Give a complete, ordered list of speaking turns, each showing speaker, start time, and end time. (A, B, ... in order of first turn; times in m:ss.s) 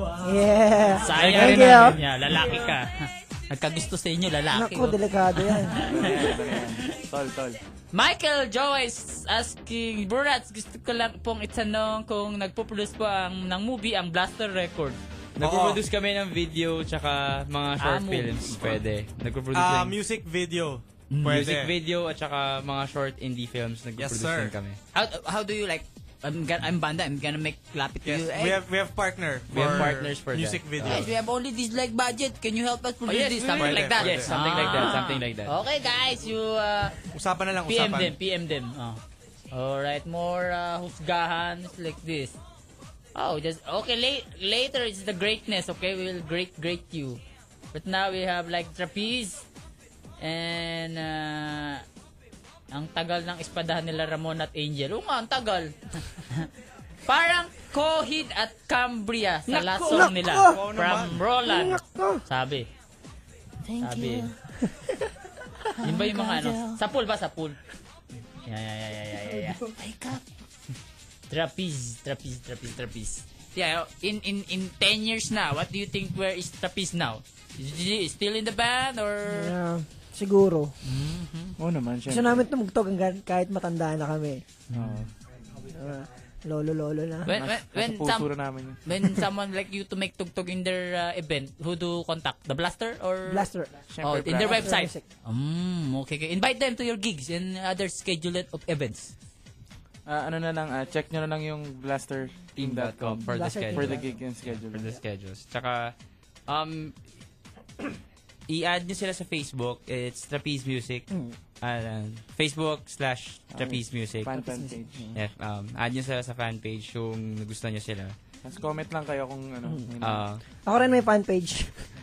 0:00.2-0:02.0 A
0:01.0-0:06.8 B
0:01.1-0:02.0 C
0:02.3-0:02.6 D
0:04.5-0:05.8 A
0:05.8-0:07.6 C
0:07.9-0:15.0 B
0:15.4-0:20.0 D
0:15.4-0:15.8 E
0:17.8-0:18.7 B
0:19.5-0:21.7 E
0:21.1-0:21.5 B
0:21.3-0:24.8 D
0:24.0-0:24.5 E
0:24.9-0:28.6 B
0:28.0-0:31.1 E
0:29.5-0:31.1 D
0:30.8-0:37.0 B
0:33.1-0:35.6 D
0:33.4-0:34.4 E
0:37.1-0:38.2 E
0:37.6-0:39.0 B
0:39.5-0:42.4 B
0:43.2-0:47.2 B
0:47.7-0:49.4 B
0:50.2-0:51.8 B
0:52.7-0:56.5 B
0:57.1-1:02.7 B
0:59.5-1:00.1 D
0:59.9-1:00.6 A
1:00.5-1:01.2 E
1:01.4-1:02.2 A
1:03.8-1:04.3 B
1:03.8-1:04.3 D
1:05.8-1:07.6 B
1:08.4-1:10.2 B
1:11.3-1:19.5 B
1:19.3-1:20.7 A
1:20.8-1:21.6 B
1:21.6-1:22.4 C
1:22.1-1:24.4 A
1:24.7-1:25.0 B
1:24.7-1:25.1 C
1:25.7-1:27.3 A
1:27.3-1:28.3 B
1:27.3-1:28.8 C
1:28.8-1:33.5 B
1:33.3-1:33.7 A
1:33.9-1:34.8 C
1:34.0-1:39.1 B
1:34.4-1:35.0 A
1:40.1-1:44.9 C
1:42.6-1:45.9 D
1:43.3-1:44.1 A
1:46.5-1:46.9 D
1:48.5-1:51.1 D
1:51.6-1:54.4 D
1:53.5-1:55.1 C
1:54.4-1:55.2 A
1:55.1-1:58.2 D
1:58.4-2:00.3 C
2:00.0-2:00.4 D
2:00.7-2:01.7 A